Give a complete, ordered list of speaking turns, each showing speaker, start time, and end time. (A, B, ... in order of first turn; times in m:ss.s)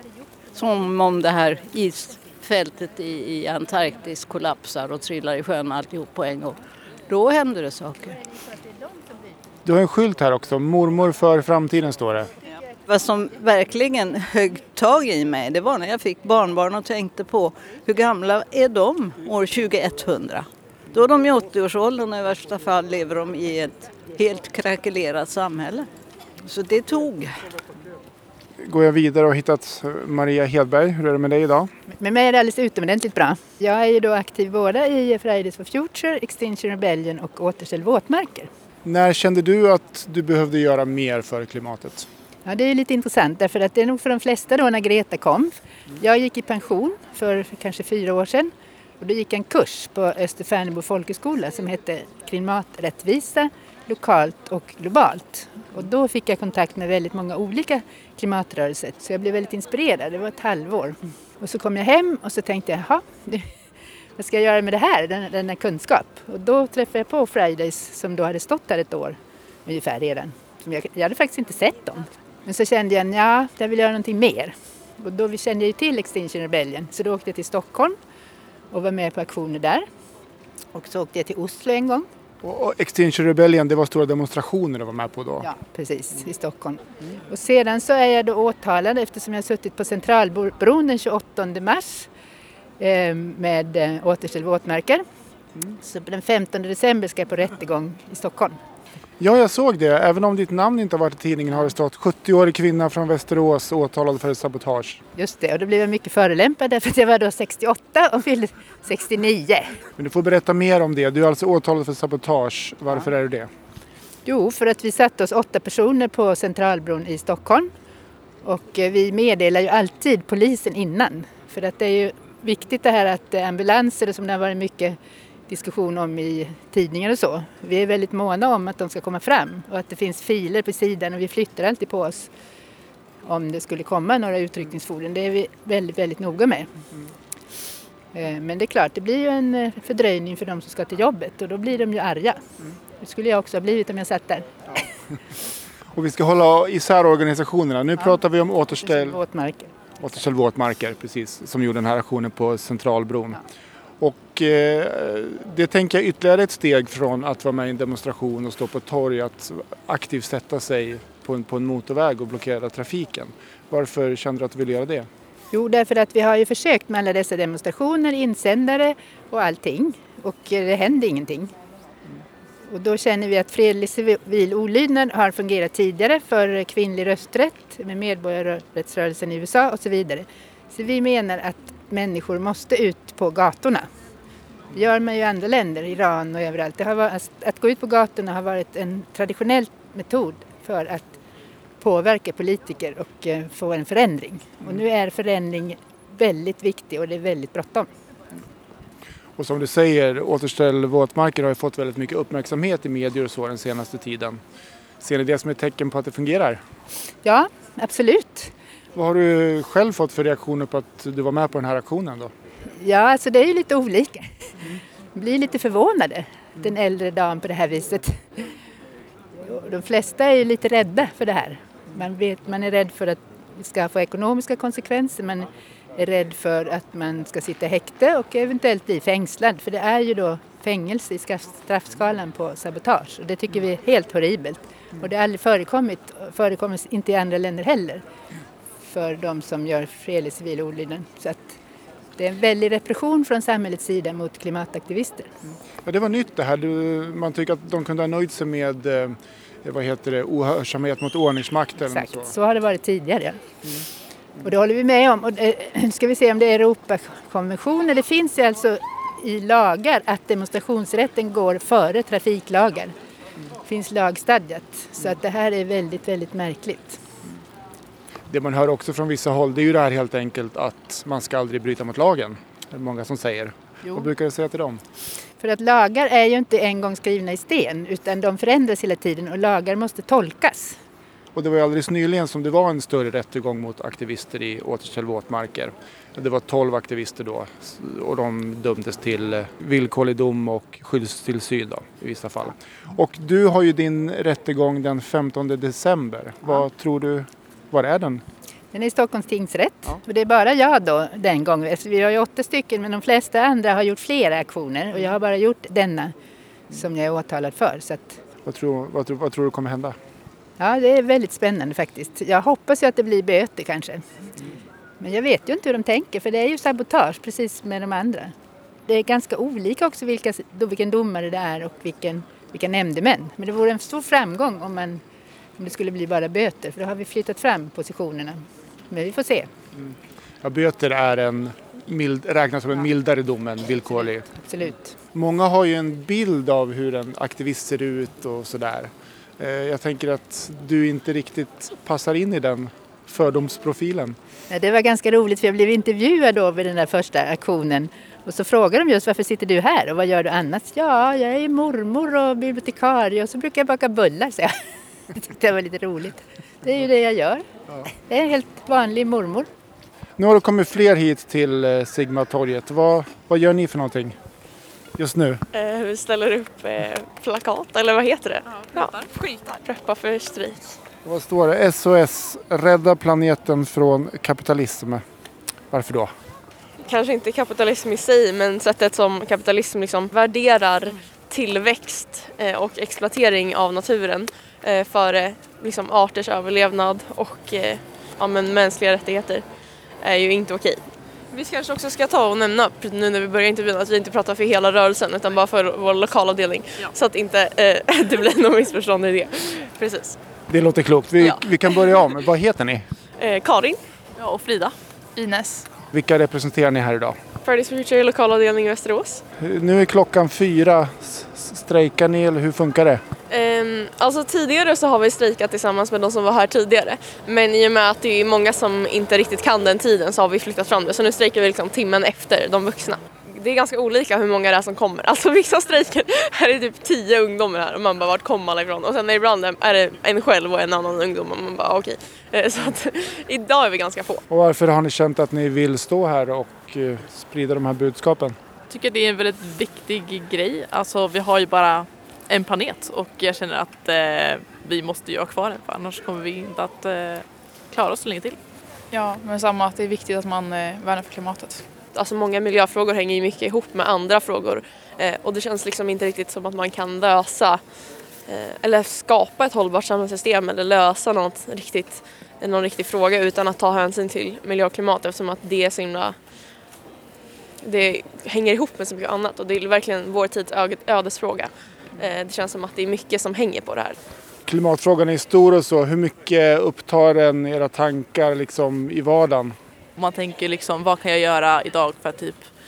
0:00.5-0:08.2 A
0:09.6-0:12.3 B
0:12.9-0:25.9 A
0:26.4-0:27.3 A
0:28.6-0:31.7 B
0:31.9-0:38.5 C
0:38.8-0:42.1 B
0:42.4-1:03.4 C
1:04.2-1:17.9 C
1:18.7-1:19.8 C
1:20.7-1:22.1 C
1:22.4-1:25.5 B
1:25.4-1:32.1 C
1:32.8-1:35.0 C
1:35.8-1:38.6 C
1:39.2-1:45.0 B
1:45.2-1:49.8 C
1:50.0-1:53.5 B
1:54.2-1:57.7 C
1:58.4-2:05.0 C
2:05.5-2:12.3 C
2:13.2-2:16.7 C
2:18.1-2:22.4 C
2:23.0-2:24.5 C
2:25.9-2:29.2 B
2:28.8-2:29.7 C
2:30.0-2:33.4 B
2:34.0-2:45.1 B
2:45.5-2:51.5 C
2:52.7-3:03.8 C
3:04.7-3:11.2 C
3:11.8-3:17.9 C
3:19.4-3:24.4 B
3:25.0-3:26.6 B
3:27.2-3:28.5 C
3:28.9-3:32.3 B
3:32.8-3:34.5 C
3:35.1-3:38.4 C
3:39.4-3:58.0 C
3:58.8-4:01.6 C
4:02.2-4:05.3 C
4:05.8-4:12.3 B
4:11.8-4:13.4 C
4:14.4-4:22.9 C
4:23.6-4:27.0 C
4:28.3-4:34.8 B
4:35.4-4:40.8 C
4:41.3-4:58.2 B
4:58.7-5:06.1 C
5:06.7-5:08.2 C
5:08.4-5:10.0 B
5:10.6-5:14.0 C
5:15.0-5:18.3 C
5:18.9-5:25.0 C
5:25.6-5:29.5 C
5:29.7-5:34.3 B
5:34.4-5:34.9 C
5:35.1-5:44.2 B
5:44.5-5:54.5 C
5:55.1-5:59.5 C
6:00.2-6:04.2 B
6:05.0-6:05.4 B
6:05.5-6:10.8 D
6:11.0-6:15.0 B
6:15.7-6:16.1 B
6:16.8-6:29.4 D
6:30.0-6:30.8 D
6:31.3-6:40.2 D
6:40.5-6:42.8 B
6:43.2-6:43.8 D
6:44.2-6:44.7 E
6:45.2-6:45.7 F
6:45.9-6:47.2 B
6:47.4-6:49.2 D
6:49.4-6:53.0 B
6:53.3-7:14.2 D
7:14.3-7:18.4 B
7:18.7-7:28.4 E
7:28.9-7:31.7 F
7:31.9-7:37.6 D
7:38.2-7:46.2 D
7:47.6-7:54.0 D
7:54.4-7:59.6 B
8:00.0-8:02.4 E